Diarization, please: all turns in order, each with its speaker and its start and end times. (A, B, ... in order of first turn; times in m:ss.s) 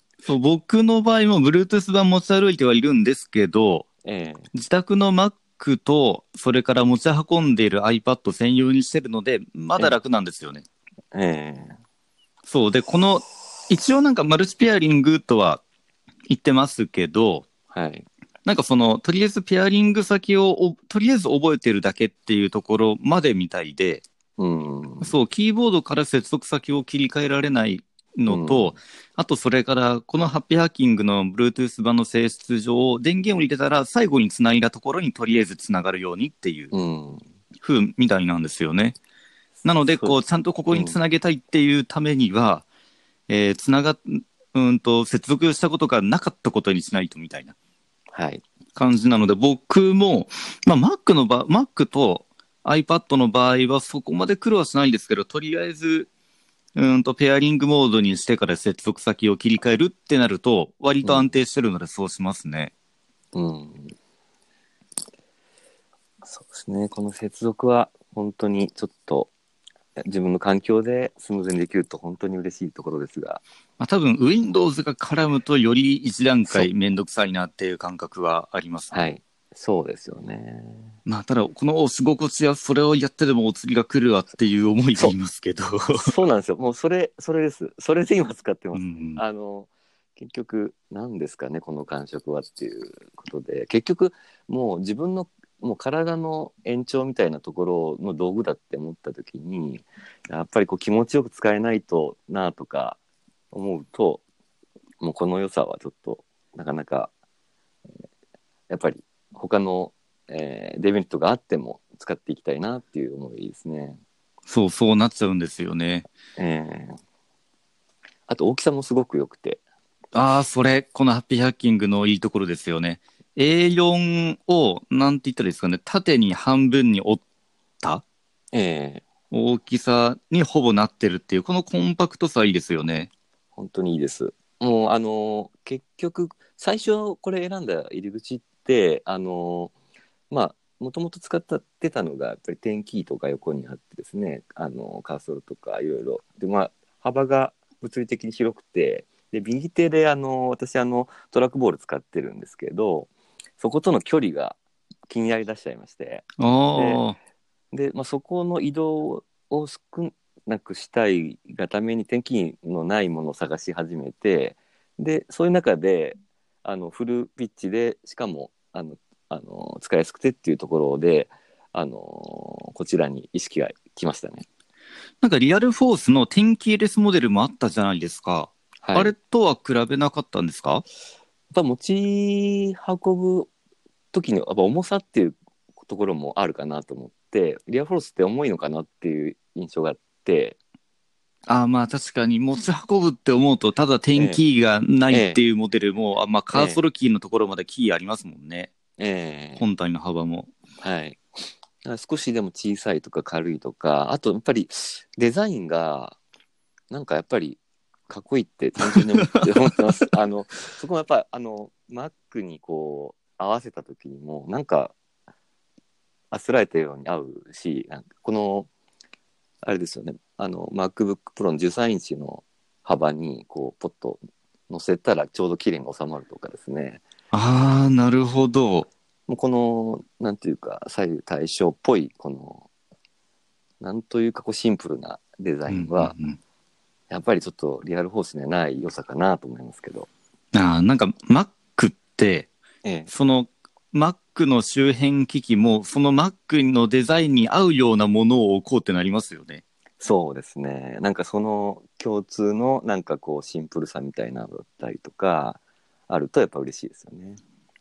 0:00.2-0:03.9 A
0:04.0-0:04.5 B
0:04.5-0:10.6 A
0:11.1-0:11.8 B
0:12.5-0:15.6 A
0:16.3-0:17.5 A
0:17.7-0:18.1 B
0:18.4-0:24.0 A
0:24.4-0:25.1 B
0:25.0-0:36.7 A
0:28.3-0:28.8 B
0:36.7-0:37.2 B
0:37.6-0:39.0 A
0:39.6-0:42.6 A
0:40.7-0:41.0 B
0:43.3-0:47.6 A
0:48.1-0:48.4 B
0:48.8-0:56.1 A
0:56.8-1:02.7 A
1:01.0-1:01.3 B
1:03.3-1:03.9 B
1:06.2-1:09.3 B
1:10.0-1:13.4 B
1:13.8-1:19.0 A
1:18.9-1:20.9 B
1:21.1-1:26.2 A
1:26.0-1:43.0 B
1:28.7-1:29.2 A
1:43.5-1:44.2 B
1:45.0-1:47.1 B
1:48.7-1:54.0 B
1:54.5-1:56.1 A
1:56.4-1:57.0 B
1:58.3-1:59.6 B
2:00.1-2:07.2 A
2:08.5-2:09.0 B
2:09.3-2:13.1 A
2:13.6-2:19.7 B
2:20.3-2:34.6 B
2:35.1-2:37.0 B
2:36.4-2:37.2 A
2:37.7-2:54.5 B
2:55.2-3:00.8 A
2:58.8-2:59.1 B
3:01.5-3:03.5 B
3:04.1-3:10.6 B
3:11.5-3:18.7 A
3:14.2-3:14.4 B
3:15.1-3:15.4 B
3:16.5-3:16.8 B
3:19.0-3:19.6 B
3:19.6-3:20.5 A
3:20.8-3:21.2 B
3:21.8-3:26.2 B
3:26.9-3:34.9 B
3:28.8-3:30.1 A
3:36.3-3:38.7 B
3:39.6-3:47.0 B
3:47.3-3:48.9 A
3:49.3-3:52.7 B
3:53.8-3:56.1 B
3:55.7-3:56.4 A
3:57.1-4:00.1 B
4:00.5-4:02.5 A
4:02.8-4:03.1 B
4:03.1-4:09.6 A
4:10.0-4:17.4 B